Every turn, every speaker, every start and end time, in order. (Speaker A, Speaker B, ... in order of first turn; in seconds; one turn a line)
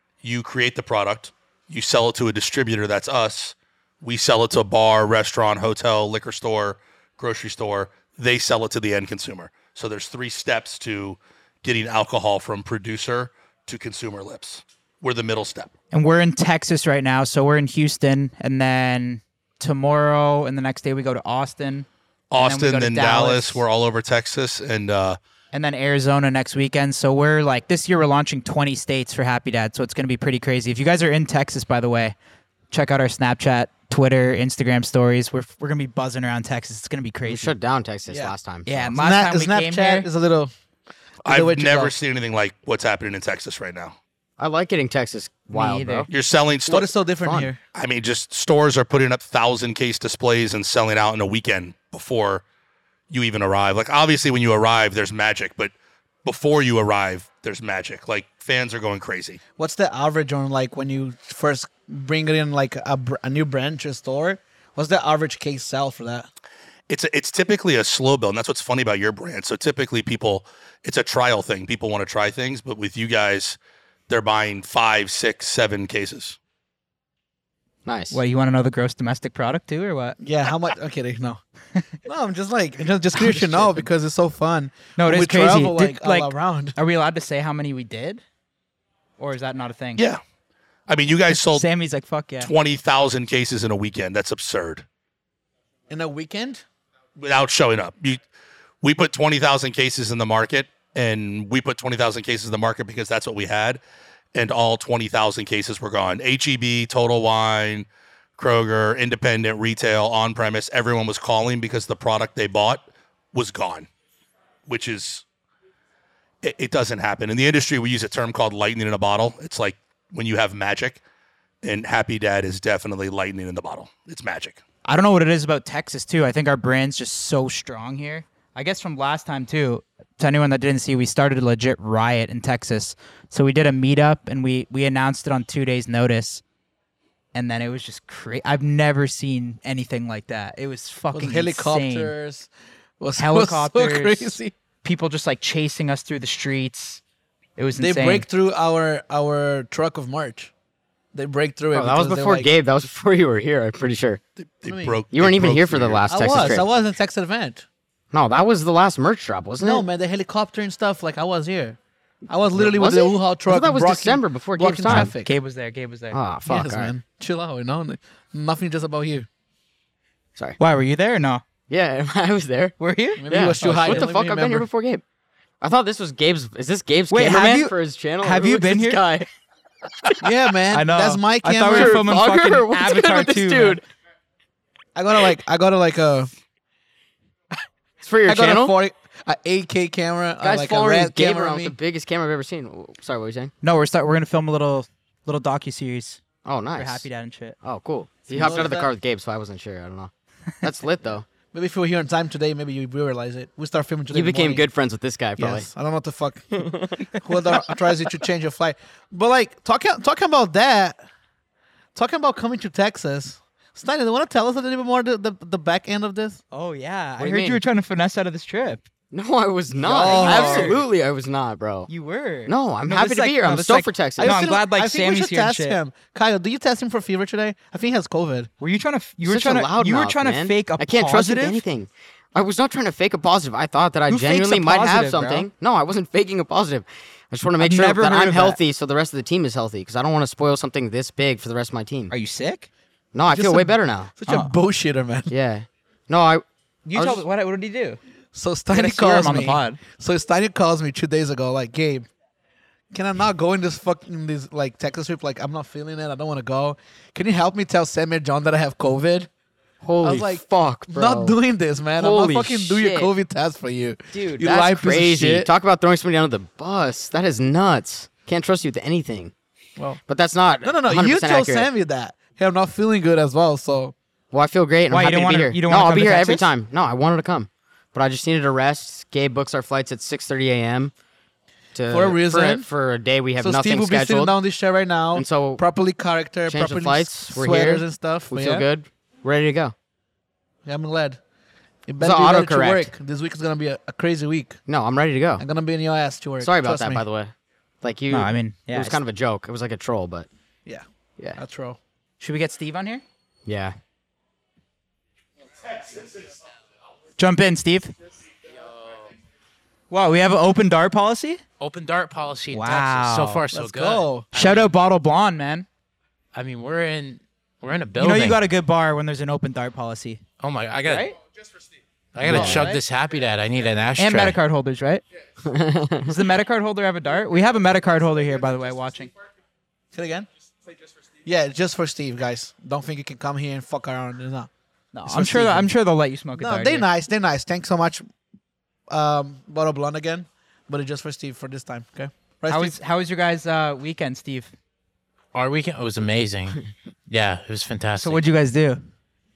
Speaker A: 0.2-15.7
Speaker B: 15.9-21.9
Speaker A: 22.3-25.2
Speaker B: 22.4-23.6
Speaker B: 25.5-32.1
Speaker B: 32.7-37.5
Speaker C: 37.2-38.9
Speaker D: 38.1-38.3
Speaker B: 38.6-40.1
Speaker D: 38.9-40.5
Speaker D: 41.2-41.9
Speaker A: 41.2-44.0
Speaker C: 44.4-46.1
Speaker B: 45.5-46.1
Speaker A: 46.1-46.9
Speaker D: 46.7-47.6
Speaker C: 46.7-47.5
Speaker A: 47.7-52.4
Speaker A: 53.1-55.7
Speaker A: 56.2-59.4
Speaker D: 59.6-66.3
Speaker A: 66.9-73.6
Speaker A: 74.1-76.4
Speaker C: 77.8-78.2
Speaker B: 78.1-80.2
Speaker D: 80.2-81.4
Speaker D: 82.0-86.8
Speaker B: 83.1-83.8
Speaker B: 85.0-88.2
Speaker B: 89.2-90.0
Speaker A: 90.0-90.2
Speaker A: 90.9-91.7
Speaker B: 91.3-92.5
Speaker A: 92.4-94.8
Speaker D: 95.9-96.6
Speaker A: 97.2-98.2
Speaker A: 98.8-103.8
Speaker A: 104.3-113.9
Speaker A: 114.7-115.2
Speaker A: 116.4-121.0
Speaker A: 121.6-124.6
Speaker B: 124.8-136.4
Speaker B: 137.3-142.1
Speaker D: 141.1-142.5
Speaker D: 143.0-144.5
Speaker B: 143.2-147.0
Speaker B: 147.6-148.2
Speaker D: 147.8-150.5
Speaker D: 151.1-152.5
Speaker C: 151.7-154.2
Speaker A: 154.4-156.6
Speaker D: 154.7-155.0
Speaker C: 155.1-156.7
Speaker D: 156.1-157.6
Speaker C: 158.1-159.8
Speaker D: 159.6-161.8
Speaker D: 162.3-165.3
Speaker C: 162.5-165.1
Speaker B: 164.8-166.2
Speaker C: 166.1-166.9
Speaker D: 166.5-169.3
Speaker B: 170.6-171.4
Speaker C: 171.7-175.0
Speaker B: 172.8-174.1
Speaker D: 173.2-174.7
Speaker C: 175.6-179.3
Speaker B: 177.1-179.0
Speaker D: 180.2-182.1
Speaker B: 180.7-183.8
Speaker C: 181.7-183.8
Speaker D: 184.9-186.3
Speaker C: 188.0-188.7
Speaker D: 188.2-191.8
Speaker C: 190.4-193.5
Speaker B: 193.6-196.2
Speaker C: 196.4-197.0
Speaker B: 196.8-197.6
Speaker C: 197.6-200.1
Speaker D: 198.3-198.9
Speaker B: 198.3-198.7
Speaker C: 200.6-201.2
Speaker D: 201.5-204.6
Speaker C: 204.1-205.7
Speaker D: 205.4-211.0
Speaker C: 206.6-207.8
Speaker D: 211.9-216.4
Speaker B: 216.5-218.8
Speaker C: 217.2-217.6
Speaker C: 219.1-221.9
Speaker D: 219.7-220.8
Speaker B: 220.1-220.8
Speaker B: 221.9-225.8
Speaker C: 222.5-224.4
Speaker D: 224.2-228.5
Speaker B: 228.6-231.6
Speaker C: 229.2-242.1
Speaker B: 234.1-235.5
Speaker B: 237.6-238.6
Speaker B: 242.1-242.7
Speaker C: 243.1-244.1
Speaker D: 243.3-245.3
Speaker B: 244.3-244.5
Speaker C: 245.3-246.4
Speaker B: 246.8-248.0
Speaker C: 246.9-247.2
Speaker D: 248.3-252.1
Speaker B: 248.7-249.8
Speaker D: 252.9-259.3
Speaker C: 259.8-261.4
Speaker D: 260.0-265.5
Speaker C: 261.9-263.1
Speaker C: 264.1-269.3
Speaker C: 270.1-271.7
Speaker D: 270.6-273.9
Speaker C: 274.3-280.9
Speaker B: 274.9-276.5
Speaker C: 281.7-284.3
Speaker D: 281.9-282.7
Speaker D: 283.4-288.6
Speaker C: 285.1-285.6
Speaker C: 286.5-289.7
Speaker D: 290.6-291.2
Speaker D: 291.9-294.6
Speaker C: 292.0-292.9
Speaker C: 294.7-295.4
Speaker D: 295.4-297.0
Speaker C: 296.4-300.3
Speaker B: 298.1-299.0
Speaker D: 301.4-301.8
Speaker B: 302.2-303.0
Speaker C: 303.4-303.8
Speaker B: 307.2-307.9
Speaker E: 308.6-309.1
Speaker B: 309.9-311.4
Speaker E: 311.6-314.7
Speaker B: 312.5-313.4
Speaker D: 313.5-314.2
Speaker B: 314.3-315.6
Speaker E: 316.3-318.4
Speaker B: 318.0-320.2
Speaker E: 320.4-321.1
Speaker B: 320.8-321.1
Speaker E: 322.1-324.4
Speaker D: 322.2-322.7
Speaker B: 322.2-322.8
Speaker C: 322.3-322.6
Speaker B: 324.0-325.0
Speaker C: 325.4-326.1
Speaker B: 326.1-329.1
Speaker D: 329.9-330.3
Speaker D: 331.2-334.5
Speaker B: 334.9-336.9
Speaker D: 335.1-335.7
Speaker D: 336.3-338.0
Speaker D: 338.9-342.7
Speaker B: 342.5-344.5
Speaker E: 345.3-348.2
Speaker B: 348.0-348.8